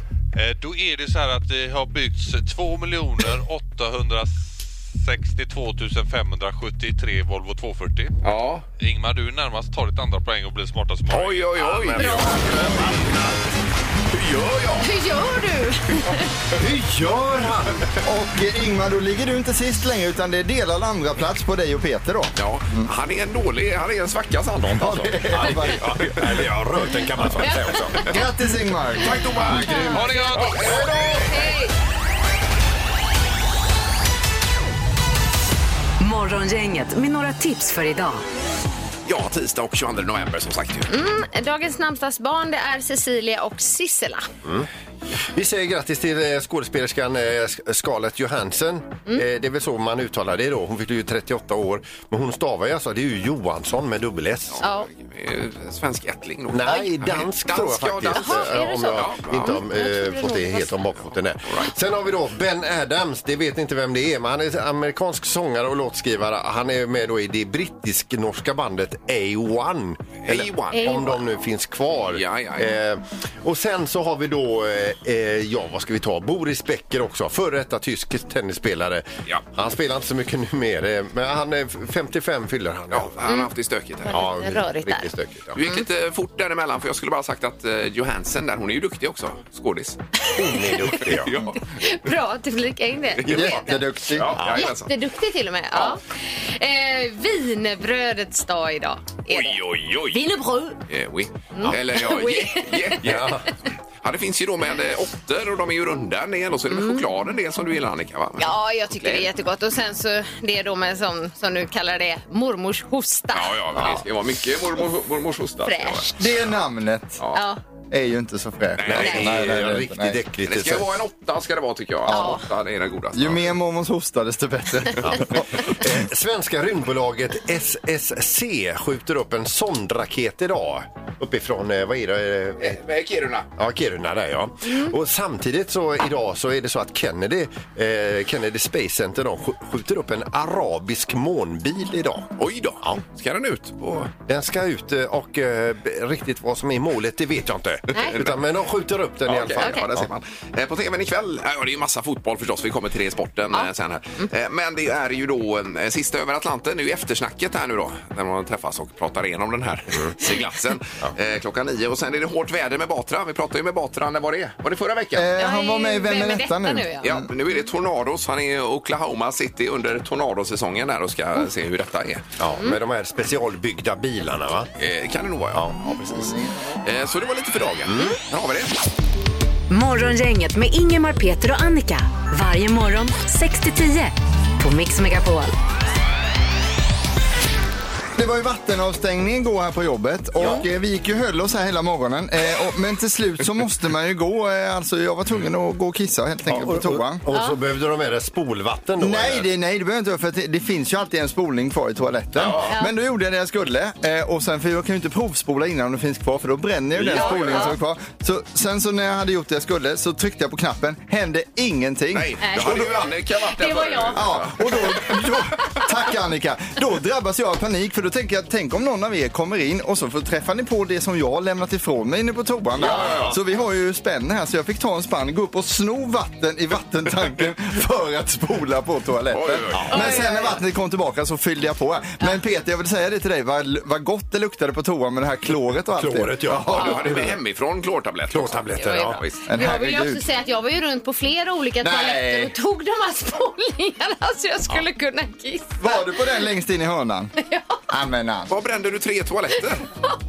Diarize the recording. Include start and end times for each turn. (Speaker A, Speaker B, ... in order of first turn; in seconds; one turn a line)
Speaker A: 0.3-8.2
Speaker B: 8.2-8.6
Speaker A: 8.8-12.7
Speaker B: 11.1-13.1
Speaker C: 11.8-13.3
Speaker D: 12.0-12.4
Speaker B: 14.1-14.9
Speaker D: 14.8-16.2
Speaker C: 16.6-17.9
Speaker E: 18.0-22.9
Speaker B: 22.4-25.6
Speaker E: 24.8-26.2
Speaker C: 25.3-28.0
Speaker B: 27.6-28.2
Speaker E: 28.1-29.8
Speaker B: 29.0-31.4
Speaker D: 29.5-30.6
Speaker C: 29.6-29.9
Speaker A: 29.9-30.8
Speaker C: 30.6-31.1
Speaker D: 31.2-31.7
Speaker F: 36.0-38.2
Speaker B: 39.0-40.9
Speaker D: 40.9-44.3
Speaker C: 45.3-54.6
Speaker B: 54.5-59.5
Speaker D: 54.6-54.9
Speaker C: 56.5-83.2
Speaker D: 58.1-60.8
Speaker B: 61.5-61.7
Speaker B: 70.2-71.1
Speaker D: 70.7-71.2
Speaker B: 72.1-72.8
Speaker B: 82.9-84.3
Speaker D: 84.0-85.1
Speaker C: 84.1-85.6
Speaker B: 85.5-90.0
Speaker D: 90.3-91.0
Speaker C: 90.3-91.5
Speaker B: 91.1-91.6
Speaker D: 91.6-93.8
Speaker B: 93.2-94.9
Speaker E: 93.3-94.3
Speaker C: 94.3-94.7
Speaker D: 94.5-100.8
Speaker B: 99.3-100.2
Speaker B: 100.9-103.4
Speaker D: 101.5-103.0
Speaker C: 103.0-103.5
Speaker B: 104.0-109.3
Speaker D: 106.7-107.1
Speaker D: 108.4-113.9
Speaker B: 113.3-116.1
Speaker C: 113.8-114.0
Speaker D: 115.6-116.2
Speaker E: 116.2-117.2
Speaker D: 117.3-117.6
Speaker E: 117.9-120.2
Speaker B: 118.8-119.5
Speaker C: 118.8-121.0
Speaker D: 119.0-119.3
Speaker B: 120.4-123.5
Speaker E: 122.1-122.3
Speaker D: 122.1-122.4
Speaker E: 123.1-125.5
Speaker C: 125.0-132.8
Speaker B: 132.6-133.5
Speaker C: 133.6-143.0
Speaker D: 134.7-134.9
Speaker B: 142.4-144.1
Speaker C: 144.2-150.1
Speaker B: 147.9-148.4
Speaker B: 149.2-165.3
Speaker D: 149.6-149.8
Speaker D: 153.5-154.3
Speaker E: 165.1-167.3
Speaker D: 165.4-167.1
Speaker B: 167.0-172.2
Speaker C: 172.4-174.7
Speaker B: 174.8-178.8
Speaker C: 177.8-178.2
Speaker F: 179.7-185.5
Speaker E: 188.2-197.2
Speaker C: 196.4-199.5
Speaker D: 197.3-197.6
Speaker E: 199.0-212.8
Speaker B: 202.3-202.7
Speaker D: 202.7-202.9
Speaker B: 207.0-207.7
Speaker D: 207.1-207.8
Speaker B: 212.1-215.4
Speaker D: 212.4-214.3
Speaker E: 214.1-237.3
Speaker B: 222.8-223.3
Speaker C: 222.8-223.4
Speaker B: 229.3-230.3
Speaker C: 229.7-230.0
Speaker D: 229.9-230.6
Speaker C: 235.9-237.4
Speaker B: 236.7-239.4
Speaker C: 238.3-239.2
Speaker D: 238.8-246.0
Speaker E: 239.5-240.2
Speaker E: 241.8-242.5
Speaker E: 245.8-247.3
Speaker D: 247.4-247.8
Speaker E: 247.9-248.5
Speaker B: 248.5-249.8